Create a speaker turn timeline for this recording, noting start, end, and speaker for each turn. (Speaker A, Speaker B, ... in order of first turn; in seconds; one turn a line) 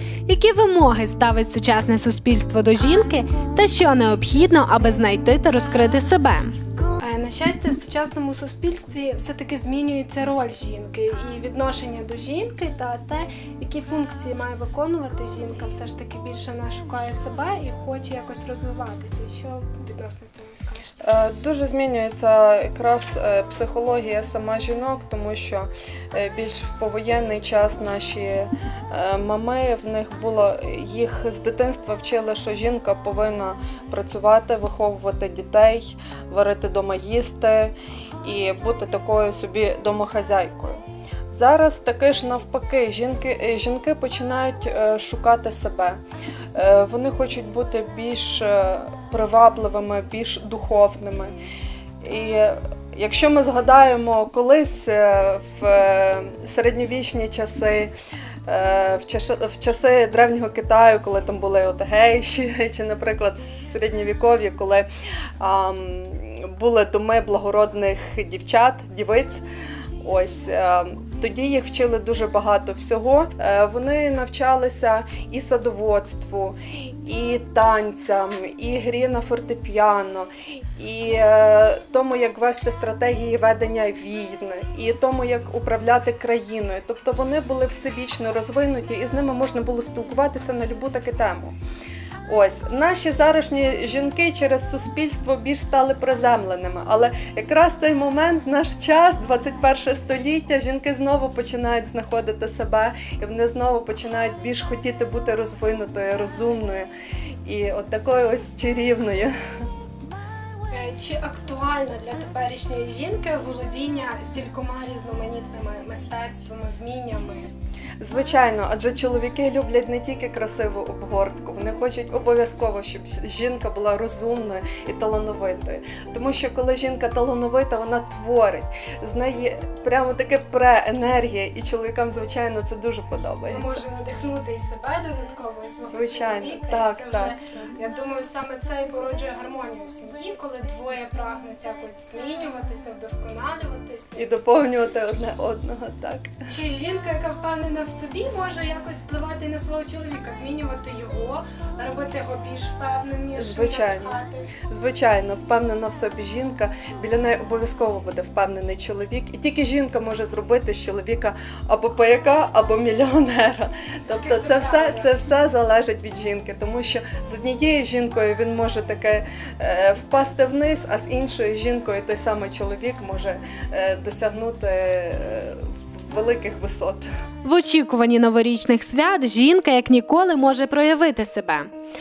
Speaker A: 0.3-6.5
Speaker B: 7.0-20.9
Speaker C: 21.0-46.0
Speaker C: 46.5-51.4
Speaker C: 52.0-57.9
Speaker C: 58.5-64.9
Speaker C: 65.4-69.4
Speaker C: 70.0-91.6
Speaker C: 92.3-106.9
Speaker C: 107.4-109.3
Speaker B: 110.7-117.5
Speaker C: 118.0-133.8
Speaker B: 133.5-144.3
Speaker C: 135.9-137.4
Speaker C: 144.2-146.5
Speaker B: 146.5-154.5
Speaker C: 153.4-177.1
Speaker B: 164.0-165.1
Speaker A: 177.4-181.7